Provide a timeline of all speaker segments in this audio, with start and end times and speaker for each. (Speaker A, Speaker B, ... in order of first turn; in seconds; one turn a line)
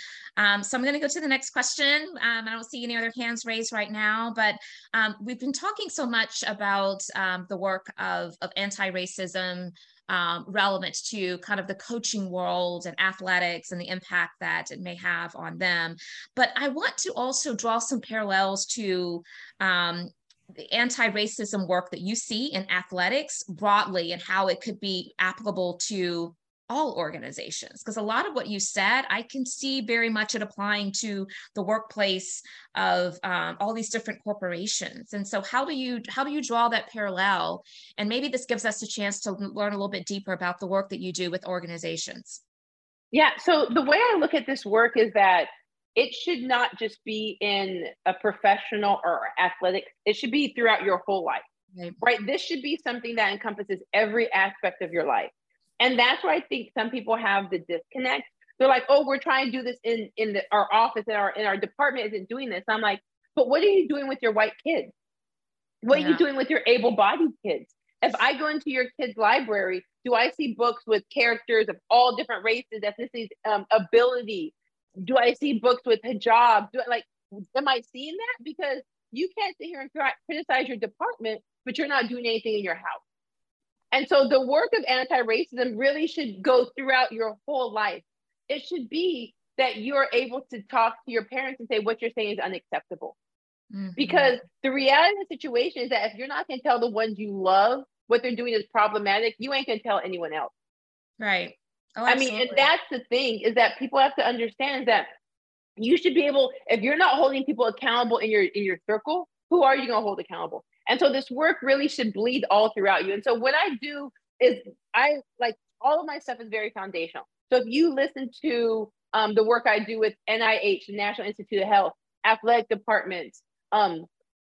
Speaker A: 0.4-42.4
Speaker B: 43.1-51.4
Speaker A: 51.7-52.0
Speaker B: 52.0-64.9
Speaker B: 65.8-83.0
Speaker A: 65.9-66.2
Speaker B: 83.9-93.2
Speaker A: 93.7-94.4
Speaker B: 94.0-100.5
Speaker A: 101.2-102.7
Speaker B: 102.1-105.1
Speaker B: 105.8-124.1